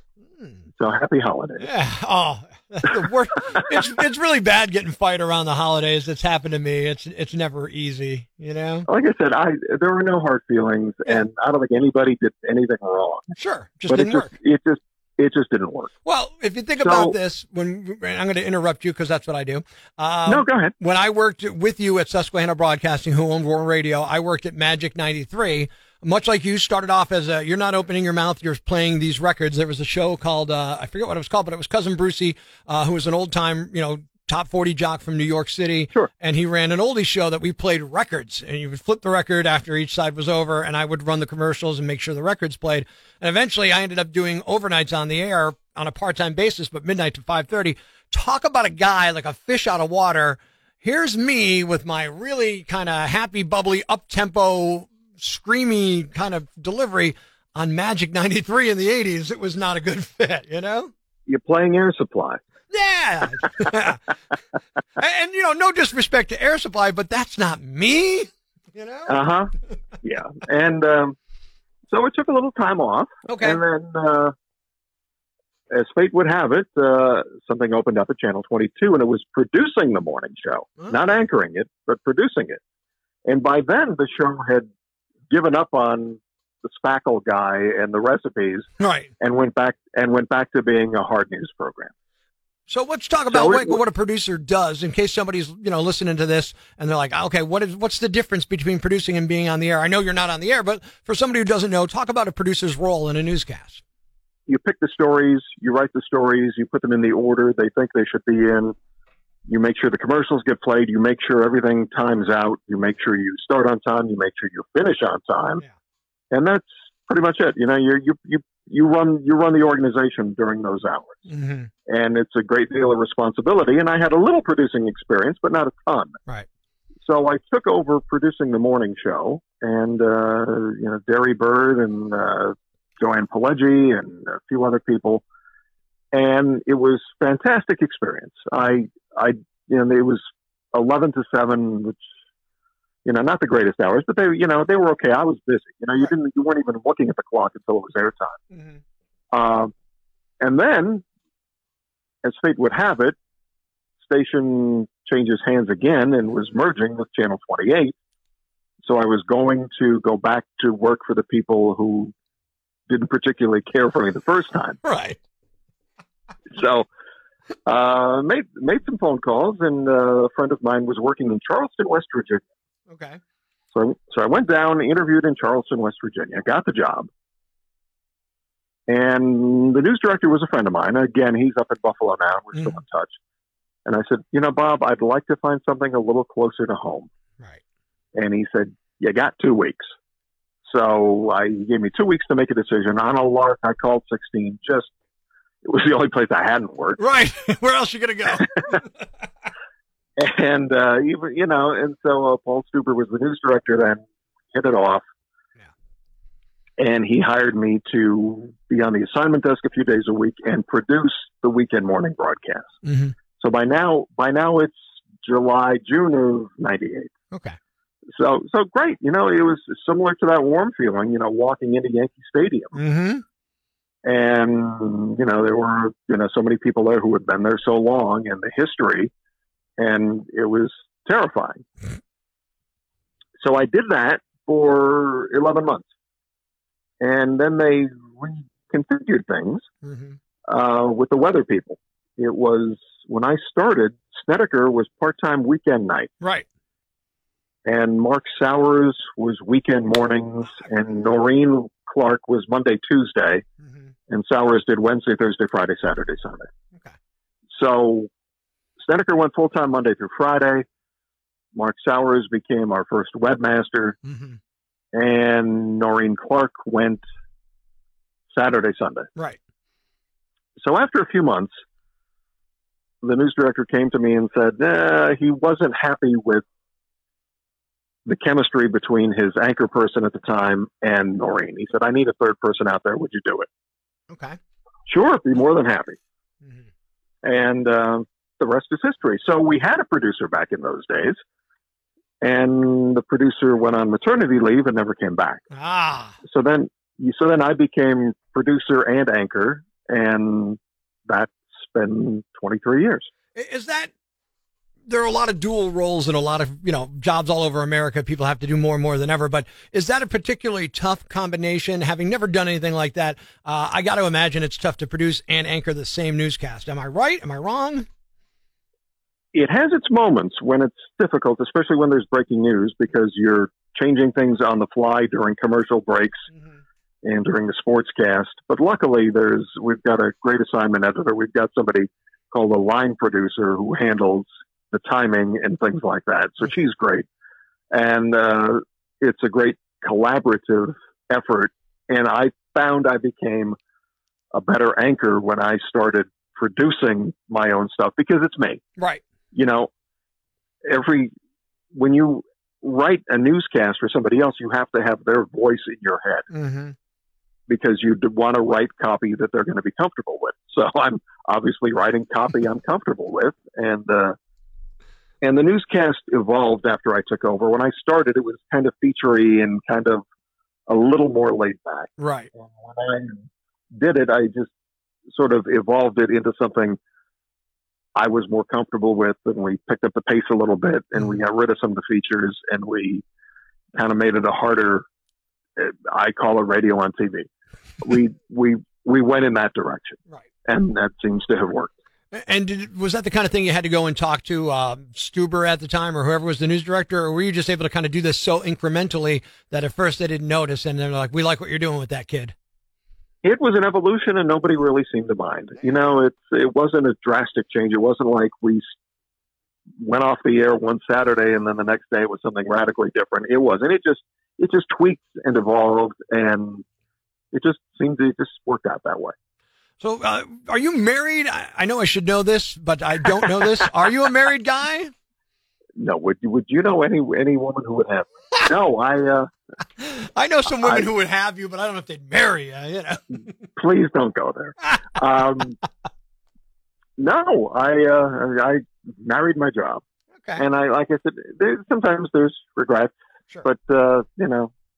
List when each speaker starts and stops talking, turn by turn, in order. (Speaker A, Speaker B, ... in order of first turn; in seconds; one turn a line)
Speaker A: 0.4-0.7
Speaker B: 0.8-1.7
Speaker A: 1.6-8.9
Speaker B: 8.9-13.3
Speaker A: 13.4-14.3
Speaker B: 13.9-15.9
Speaker A: 16.1-60.9
Speaker B: 16.8-17.2
Speaker B: 20.3-20.7
Speaker B: 61.3-62.4
Speaker A: 62.7-64.1
Speaker A: 65.0-69.1
Speaker B: 69.1-71.2
Speaker B: 71.9-74.3
Speaker A: 73.3-73.6
Speaker B: 75.7-82.6
Speaker B: 83.3-84.7
Speaker B: 85.3-88.7
Speaker A: 88.8-89.1
Speaker B: 89.2-91.9
Speaker A: 92.7-103.8
Speaker B: 93.3-93.8
Speaker B: 104.5-108.8
Speaker B: 109.5-115.6
Speaker B: 116.3-121.2
Speaker A: 121.3-121.7
Speaker B: 121.9-126.2
Speaker B: 127.0-135.2
Speaker B: 136.1-142.0
Speaker B: 143.1-148.4
Speaker A: 148.5-148.8
Speaker B: 149.3-149.7
Speaker B: 150.4-151.1
Speaker B: 152.2-153.2
Speaker B: 154.0-158.0
Speaker B: 158.8-162.1
Speaker B: 162.9-164.8
Speaker A: 164.8-165.2
Speaker B: 166.5-166.9
Speaker B: 167.7-172.4
Speaker A: 172.9-173.2
Speaker B: 173.7-177.1
Speaker B: 178.9-183.1
Speaker B: 183.9-187.1
Speaker B: 188.2-189.9
Speaker B: 190.7-194.9
Speaker B: 195.6-197.0
Speaker A: 197.0-198.8
Speaker B: 200.2-205.0
Speaker B: 206.8-212.7
Speaker A: 212.8-213.2
Speaker B: 213.4-217.1
Speaker A: 217.3-217.6
Speaker B: 218.1-222.8
Speaker A: 222.8-223.2
Speaker B: 224.1-229.1
Speaker B: 229.8-231.7
Speaker B: 233.4-235.9
Speaker B: 237.0-239.7
Speaker A: 239.8-240.2
Speaker B: 240.5-246.1
Speaker A: 246.2-246.5
Speaker B: 247.7-253.4
Speaker A: 253.6-253.9
Speaker B: 254.1-256.5
Speaker B: 257.5-258.1
Speaker B: 258.8-260.6
Speaker B: 261.6-264.0
Speaker A: 264.1-264.4
Speaker B: 264.9-267.0
Speaker B: 268.3-269.1
Speaker B: 270.6-271.5
Speaker B: 273.0-276.4
Speaker B: 278.1-283.5
Speaker A: 284.1-284.4
Speaker B: 284.9-286.0
Speaker B: 287.2-291.2
Speaker B: 292.2-295.4
Speaker A: 295.5-296.2
Speaker B: 296.2-303.1
Speaker A: 303.4-303.9
Speaker A: 304.9-317.9
Speaker B: 319.3-326.3
Speaker B: 327.0-337.1
Speaker B: 337.7-343.6
Speaker B: 344.3-348.6
Speaker A: 348.8-349.0
Speaker B: 349.3-349.7
Speaker B: 350.6-351.1
Speaker B: 351.7-356.3
Speaker A: 356.3-356.8
Speaker B: 357.5-364.2
Speaker B: 365.2-370.0
Speaker B: 370.7-374.5
Speaker A: 372.0-372.3
Speaker B: 375.1-376.8
Speaker B: 378.0-383.1
Speaker B: 383.8-384.9
Speaker B: 385.6-387.3
Speaker B: 387.8-391.7
Speaker A: 392.1-402.4
Speaker B: 403.2-408.6
Speaker B: 409.8-416.6
Speaker B: 417.3-419.1
Speaker A: 419.8-424.9
Speaker B: 425.8-429.3
Speaker A: 429.8-433.3
Speaker B: 433.6-435.6
Speaker B: 437.0-439.8
Speaker B: 440.4-444.5